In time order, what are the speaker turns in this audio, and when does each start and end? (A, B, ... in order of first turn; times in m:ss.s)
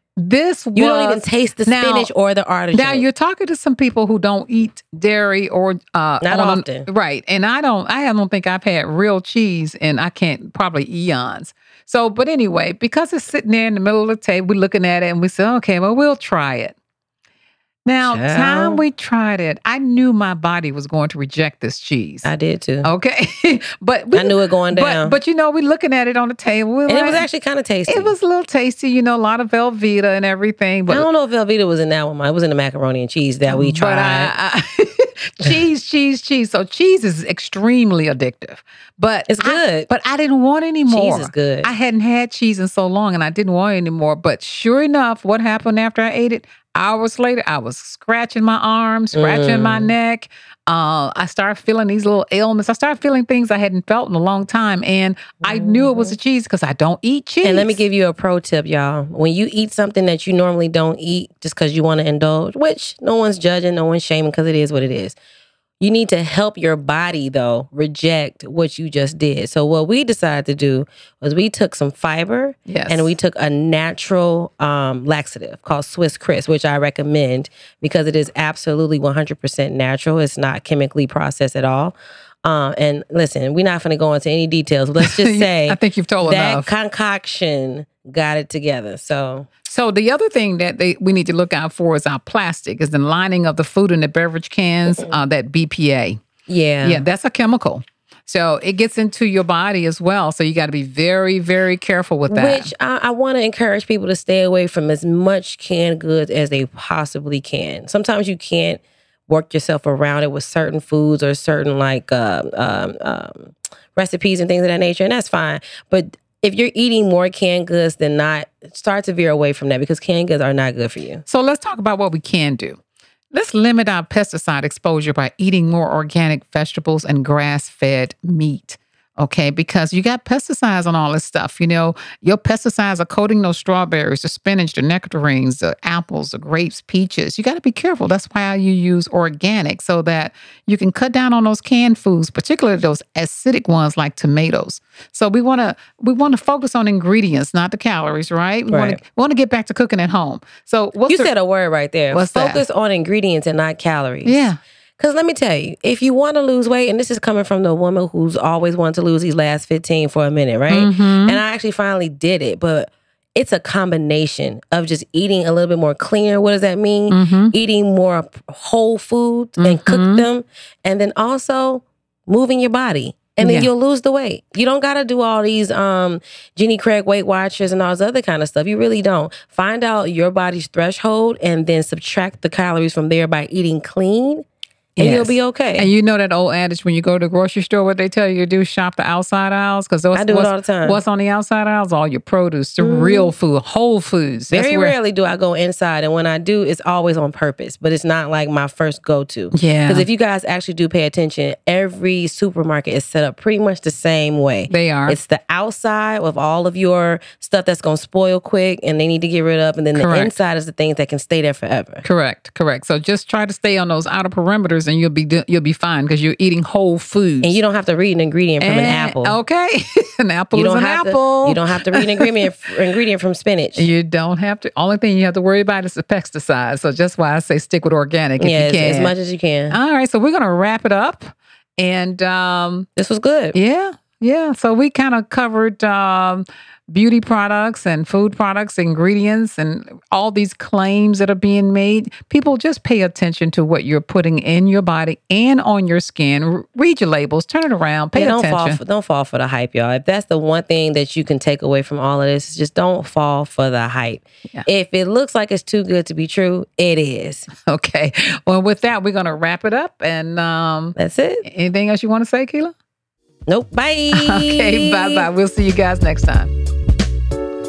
0:00.2-0:02.1 A
0:00.8-0:03.1 B
0:02.7-0:16.8 A
0:06.2-0:06.9 B
0:17.9-0:22.3 A
0:18.0-0:18.8 B
0:22.2-0:22.9 B
0:22.8-0:27.3 A
0:24.1-0:25.2 B
0:26.9-0:28.1 B
0:27.9-0:31.1 A
0:30.9-0:34.3 B
0:33.5-0:57.8 A
0:39.3-0:39.9 B
0:40.9-0:41.7 B
0:49.1-0:49.9 B
0:55.4-0:56.1 B
0:57.4-1:05.2 B
1:05.8-1:29.5 B
1:12.7-1:13.1 A
1:25.0-1:26.7 A
1:29.7-1:36.2 A
1:36.5-1:37.0 B
1:36.8-1:42.7 A
1:42.3-2:01.2 B
2:01.3-2:02.8 A
2:03.3-2:31.3 A
2:28.7-2:29.0 B
2:31.1-2:34.4 B
2:32.1-2:32.6 A
2:34.2-2:34.6 A
2:35.0-3:04.4 B
2:40.7-2:41.4 A
2:47.1-2:47.6 A
2:49.6-2:50.3 A
2:53.4-2:53.7 A
3:05.0-3:05.9 B
3:05.0-3:15.0 A
3:10.1-3:11.0 B
3:12.8-3:13.3 B
3:14.5-3:32.0 B
3:19.5-3:20.1 A
3:24.7-3:25.2 A
3:29.9-3:30.3 A
3:32.0-3:37.6 A
3:37.4-3:39.4 B
3:38.6-3:42.3 A
3:40.5-3:43.9 B
3:43.8-3:49.1 A
3:48.4-3:49.8 B
3:49.7-3:52.9 A
3:53.0-3:53.6 B
3:53.5-4:08.8 A
4:08.1-4:17.5 B
4:17.7-4:22.7 A
4:21.0-4:21.4 B
4:23.5-4:25.3 B
4:24.1-4:26.5 A